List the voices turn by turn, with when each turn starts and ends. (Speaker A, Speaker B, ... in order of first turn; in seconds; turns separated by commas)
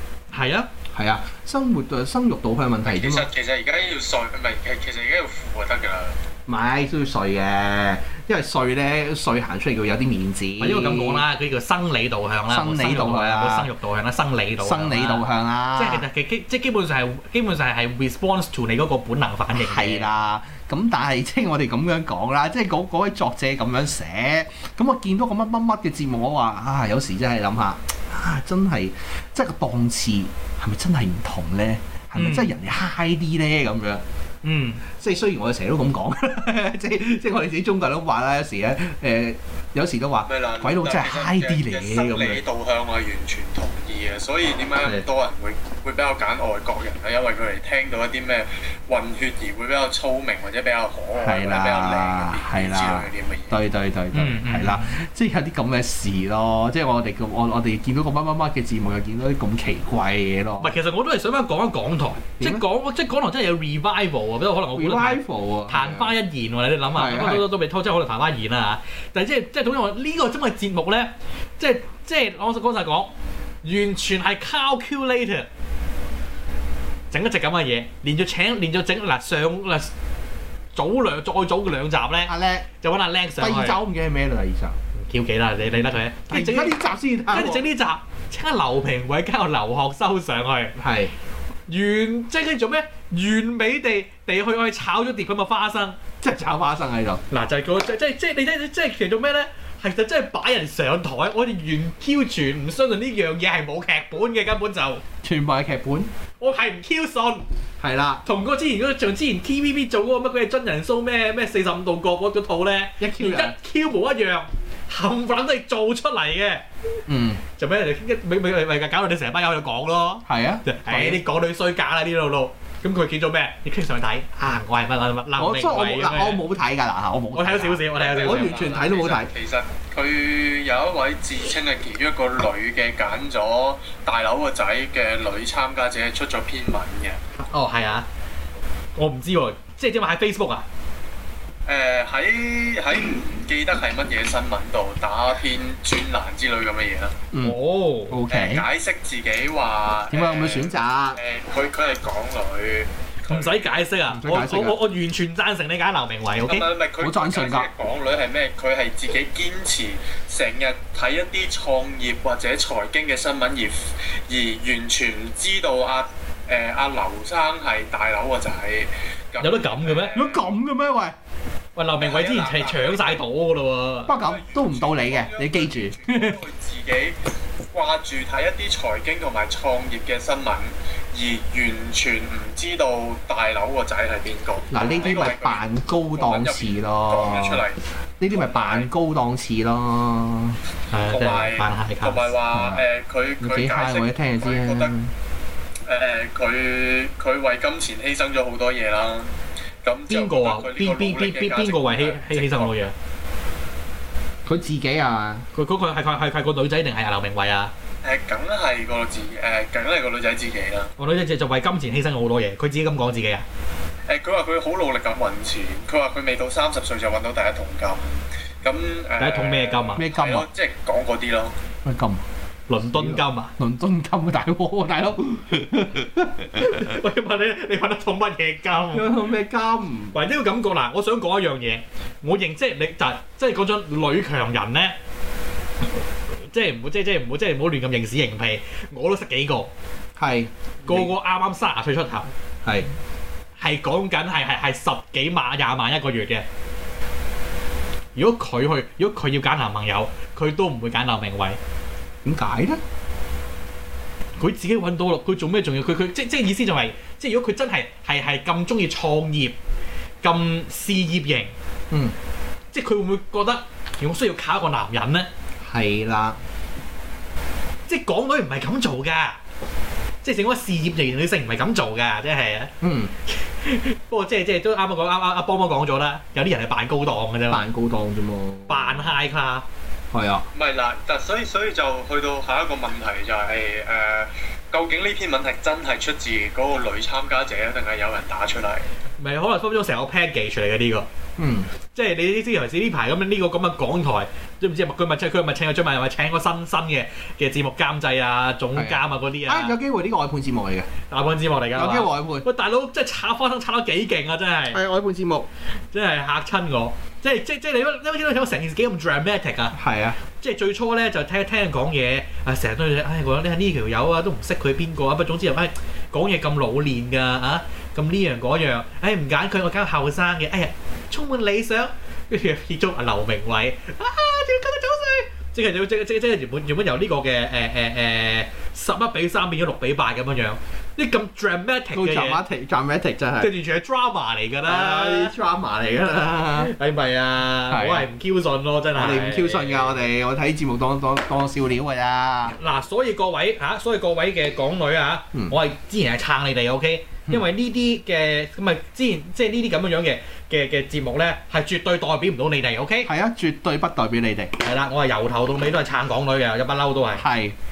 Speaker A: 0.3-0.7, Speaker B: 0.9-3.3, Speaker C: 2.9-6.2, Speaker B: 6.5-11.2, Speaker A: 10.6-20.1, Speaker B: 12.5-13.7, Speaker B: 14.6-16.1, Speaker B: 19.5-34.0, Speaker A: 32.2-32.5, Speaker A: 34.4-34.8, Speaker B: 35.0-42.4, Speaker C: 40.3-53.6, Speaker B: 51.2-60.7, Speaker A: 54.1-55.0, Speaker A: 60.6-73.1, Speaker B: 64.7-66.1, Speaker B: 66.9-67.5, Speaker A: 73.6-75.5, Speaker A: 77.1-79.9, Speaker A: 80.8-83.8, Speaker B: 82.3-82.7, Speaker B: 83.4-84.8, Speaker A: 85.0-86.8, Speaker B: 86.3-87.7, Speaker A: 87.3-90.8, Speaker B: 90.8-91.1, Speaker A: 91.7-96.0, Speaker B: 96.2-97.2, Speaker A: 97.3-105.0, Speaker B: 105.2-106.1, Speaker A: 106.4-107.5, Speaker B: 107.8-108.2, Speaker A: 108.2-116.6, Speaker B: 113.0-113.6, Speaker B: 117.1-117.4, Speaker A: 117.5-126.4, Speaker B: 120.3-121.2, Speaker B: 125.4-129.3, Speaker A: 127.3-128.7, Speaker C: 127.9-137.2, Speaker A: 137.4-138.1, Speaker A: 139.0-140.7, Speaker C: 141.7-147.2, Speaker B: 147.3-147.6, Speaker A: 147.4-148.2, Speaker B: 148.1-148.7, Speaker C: 148.3-153.7, Speaker B: 150.1-151.2, Speaker A: 153.3-156.7, Speaker B: 154.1-154.8, Speaker C: 156.4-170.3, Speaker B: 157.0-157.7, Speaker A: 169.4-170.2, Speaker B: 170.1-171.2, Speaker A: 171.8-174.1, Speaker C: 172.0-173.2, Speaker B: 174.1-176.4, Speaker C: 174.1-177.2, Speaker C: 177.7-188.9, Speaker B: 184.7-187.6, Speaker B: 188.2-190.6, Speaker A: 190.9-192.3, Speaker C: 191.1-194.9, Speaker B: 192.5-192.8, Speaker B: 193.4-195.1, Speaker C: 195.8-202.9, Speaker A: 200.1-202.9, Speaker B: 204.5-205.5, Speaker A: 205.6-207.7, Speaker C: 208.0-210.9, Speaker A: 211.0-213.4, Speaker C: 214.1-221.5, Speaker A: 219.2-220.1, Speaker B: 220.0-220.5, Speaker B: 221.8-222.2, Speaker A: 222.7-223.5, Speaker B: 222.9-227.0, Speaker A: 226.6-229.1, Speaker B: 228.9-230.2, Speaker A: 230.1-234.9, Speaker A: 236.5-239.7, Speaker B: 240.2-241.1, Speaker A: 240.8-242.3, Speaker B: 242.6-242.9, Speaker A: 243.6-246.5, Speaker A: 248.2-251.6, Speaker B: 252.2-252.8, Speaker A: 254.4-259.6, Speaker A: 260.2-261.5, Speaker B: 261.9-262.1, Speaker A: 262.7-265.3, Speaker B: 265.6-266.4, Speaker A: 267.9-269.4, Speaker A: 270.2-272.7, Speaker B: 272.8-273.1, Speaker A: 273.5-277.6, Speaker B: 277.5-278.9, Speaker A: 278.7-279.6, Speaker B: 280.1-280.5, Speaker C: 280.5-288.9, Speaker A: 289.2-291.1, Speaker B: 291.4-291.7, Speaker A: 291.9-299.8, Speaker B: 298.8-300.9, Speaker A: 301.1-304.8, Speaker B: 301.8-302.5, Speaker B: 304.7-305.5, Speaker A: 305.9-309.8, Speaker B: 309.7-310.2, Speaker A: 310.4-332.4, Speaker B: 331.9-333.5, Speaker A: 333.4-335.3, Speaker B: 334.6-336.7, Speaker A: 336.6-340.1, Speaker B: 337.7-338.1, Speaker B: 338.9-342.6, Speaker A: 342.5-353.1, Speaker B: 353.1-354.5, Speaker A: 354.6-357.3, Speaker B: 357.2-357.6